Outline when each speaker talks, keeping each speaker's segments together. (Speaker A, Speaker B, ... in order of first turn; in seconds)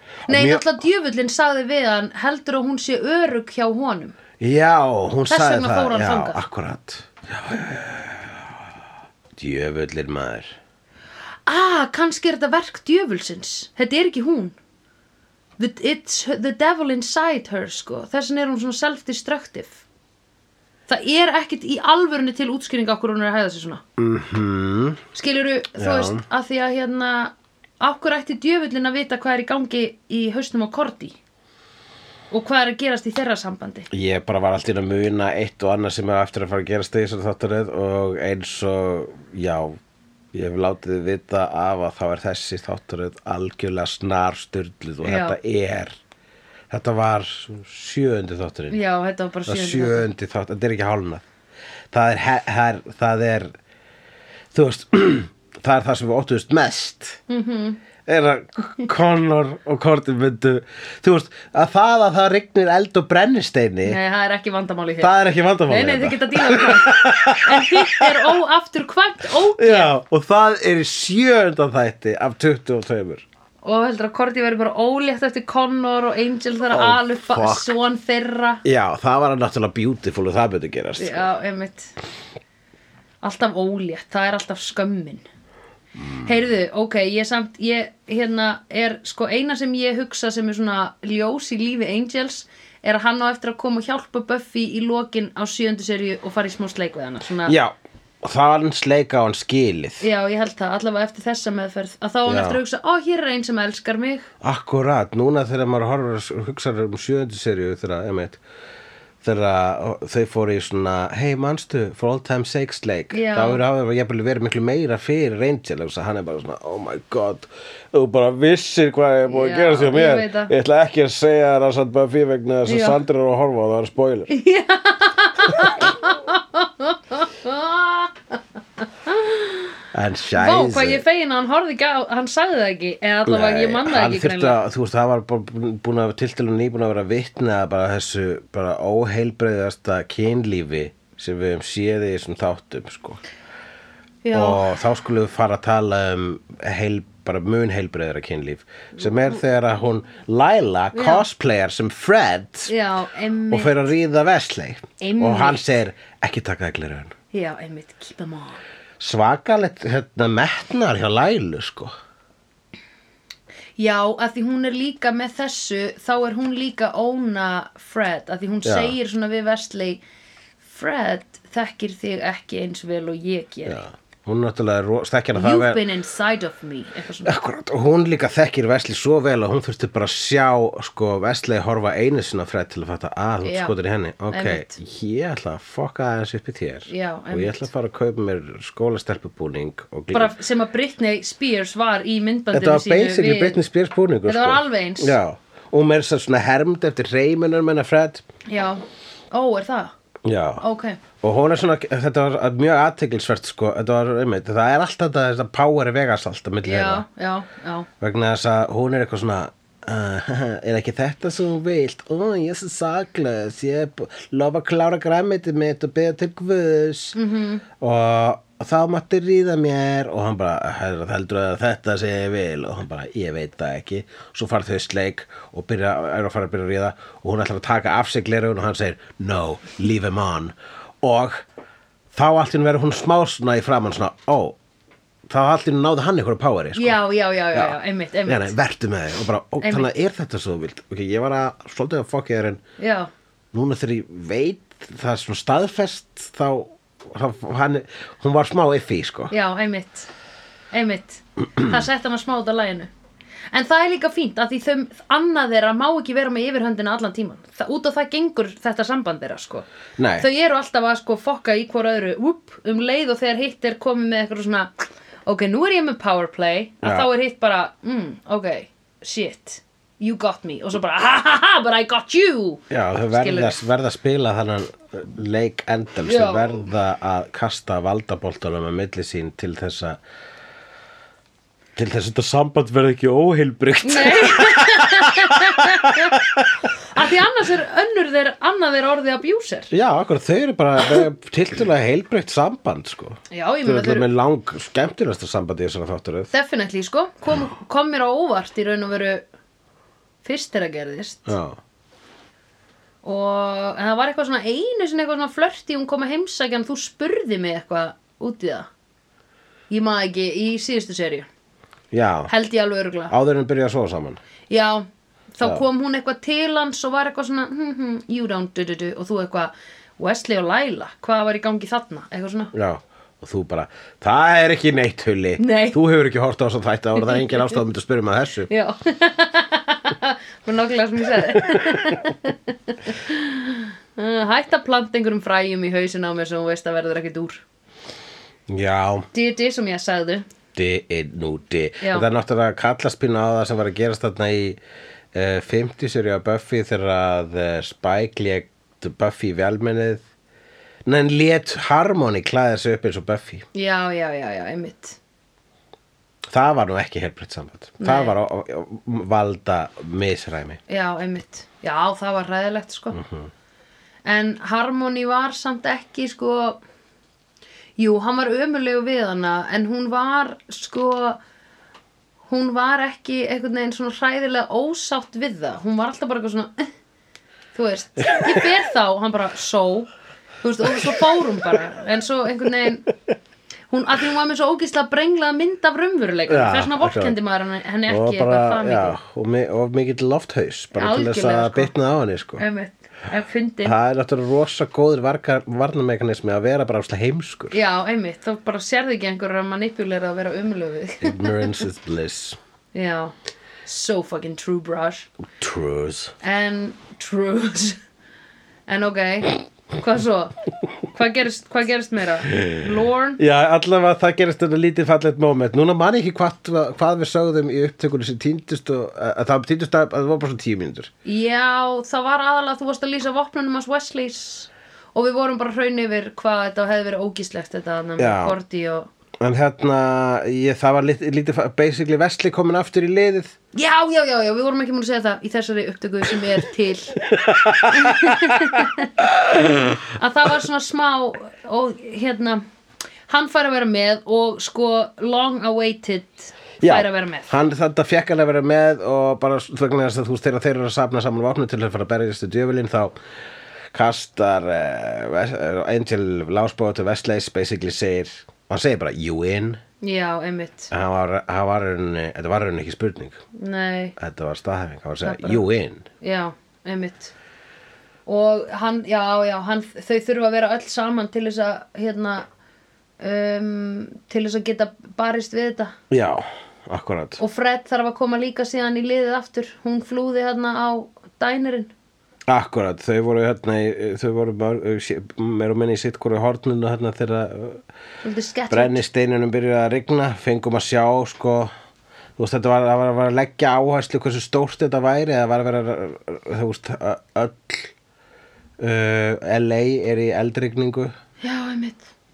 Speaker A: 0.2-0.7, 4.4-8.5, 9.3-10.6, 24.0-25.0, 25.8-26.2, 33.9-39.8, 40.3-46.0, 46.7-48.8, 49.5-51.2, 51.9-53.5, 54.5-57.2, 58.0-64.0, 65.0-68.4, 69.5-73.2, 76.7-77.7, 78.6-81.3, 86.0-86.3, 97.4-100.0, 102.2-102.6, 104.4-108.4, 109.2-124.3, 125.5-125.8, 129.9-131.0, 133.2-143.2, 144.3-152.7, 153.5-157.1, 159.0-161.9, 168.6-168.9, 173.7-175.8, 177.2-190.3, 192.5-198.2, 200.2-200.6, 201.2-207.0, 208.0-217.2, 217.8-231.4, 232.1-234.6, 235.3-237.0, 237.5-242.6, 243.5-249.3, 260.0-260.2, 266.8-267.1, 272.7-280.0, 281.8-286.6, 289.7-296.3, 301.3-301.6, 311.9-312.3, 313.1-314.2, 322.5-328.5, 331.2-332.0, 338.5-339.1, 340.5-344.6, 345.1-350.0, 350.9-353.4, 356.3-360.6, 362.9-363.3, 378.0-378.4, 380.6-381.6, 386.3-387.1, 387.9-392.4, 393.6-397.6, 401.0-402.4, 405.4-406.1, 413.2-420.9, 428.0-428.4, 429.2-433.3, 437.0-439.8, 446.6-452.9, 453.7-459.6, 460.7-463.2, 464.0-465.9, 475.9-477.2, 482.3-487.6, 488.5-491.5, 492.2-497.7, 498.6-500.9
Speaker B: 0.3-4.2, 5.3-6.4, 11.4-14.6, 15.6-19.8, 20.9-23.8, 25.1-31.2, 32.3-33.9, 45.0-45.4, 48.7-50.1, 57.3-57.8, 63.8-69.9, 73.6-78.6, 81.0-81.9, 83.2-85.2, 86.2-97.6, 100.0-104.3, 113.1-113.6, 119.3-120.5, 122.7-123.0, 124.3-129.7, 130.3-134.6, 144.2-144.8, 150.9-151.2, 152.7-153.8, 155.0-155.6, 157.3-158.6, 163.8-170.0, 170.6-173.8, 175.3-177.3, 183.4-183.7, 184.3-184.7, 186.9-187.7, 190.1-193.6, 194.2-195.2, 198.4-199.9, 200.6-201.0, 206.6-207.9, 217.1-217.6, 236.7-238.5, 239.6-239.9, 242.8-243.1, 249.3-250.1, 250.7-252.9, 253.5-259.6, 260.2-264.7, 265.2-273.6, 276.0-276.6, 283.8-286.2, 286.8-289.7, 293.3-294.1, 296.3-299.2, 300.2-301.4, 303.0-308.7, 309.7-311.3, 312.3-313.1, 314.5-322.5, 325.4-325.8, 327.0-327.6, 328.5-337.4, 339.1-340.2, 341.8-342.1, 353.5-355.0, 357.8-358.1, 360.7-363.0, 364.1-366.6, 367.8-371.2, 372.3-376.7, 377.5-379.9, 380.4-382.9, 383.7-389.0, 390.8-391.7, 392.4-393.8, 397.5-401.6, 402.7-403.1, 403.6-405.1, 406.2-407.8, 408.7-410.4, 410.9-413.2, 421.0-428.9, 433.5-437.0, 437.7-439.0, 439.8-442.4, 443.1-447.3, 459.8-460.7, 463.3-463.9, 465.0-465.4, 466.0-467.1, 468.1-472.2, 473.0-475.7, 477.2-481.7, 488.0-488.8, 501.2-501.9